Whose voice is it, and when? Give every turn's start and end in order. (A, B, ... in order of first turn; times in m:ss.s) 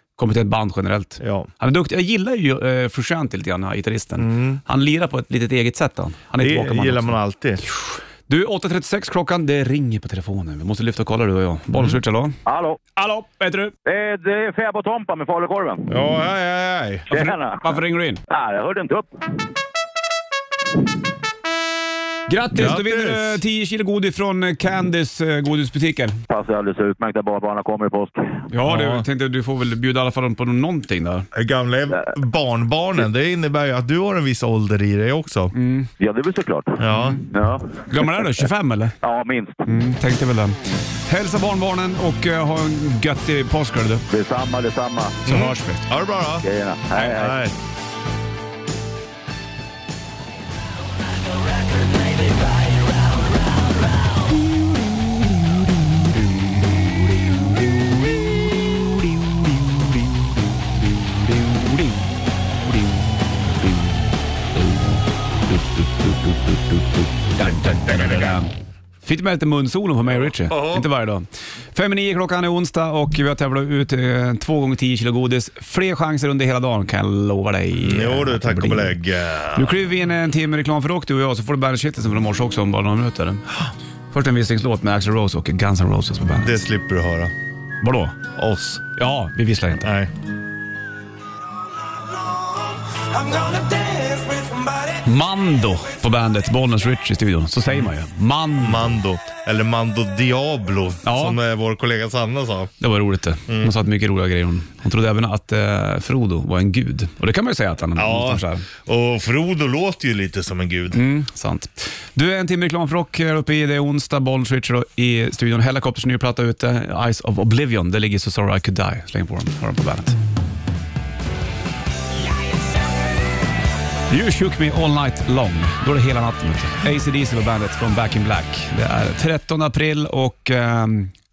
0:00.2-0:12.4 A
0:01.2-0:01.5 B
0:04.2-0:04.6 B
0:06.4-0:07.6 B
0:11.7-0:12.0 B
0:12.4-0:12.8 C
0:13.0-0:13.7 A
0:13.8-0:15.9 C
0:15.9-0:17.1 B
0:17.1-0:17.8 C
0:17.1-0:18.2 A
0:18.3-0:19.1 C
0:22.3-0:26.2 A
0:22.5-0:23.4 B
0:26.3-0:28.4 C
0:28.5-0:31.3 A
0:28.6-0:29.0 B
0:31.3-0:35.5 B
0:35.5-0:35.9 A
0:36.0-0:37.8 C
0:36.8-0:37.2 B
0:36.9-0:37.2 A
0:37.8-0:38.9 A
0:39.0-0:39.6 C
0:39.6-0:44.0 A
0:44.1-0:45.2 C
0:45.2-0:47.5 B
0:45.2-0:45.8 A
0:46.4-0:47.4 C
0:56.1-0:57.7 A
1:00.8-1:02.0 A
1:02.6-1:04.0 A
1:04.6-1:08.5 A
1:07.4-1:08.4 B
1:09.0-1:19.0 A
1:10.2-1:10.9 B
1:17.8-1:19.8 B
1:19.5-1:23.4 A
1:24.1-1:26.6 A
1:26.2-1:27.3 B
1:27.8-1:28.2 A
1:28.4-1:28.8 B
1:29.0-1:29.9 A
1:29.8-1:30.1 B
1:33.3-1:33.6 B
1:35.0-1:38.9 A
1:38.6-1:42.7 B
1:41.0-1:41.4 A
1:42.8-1:48.7 A
1:43.5-1:43.7 B
1:48.0-1:51.0 B
1:50.9-2:00.2 A
2:04.1-2:11.1 A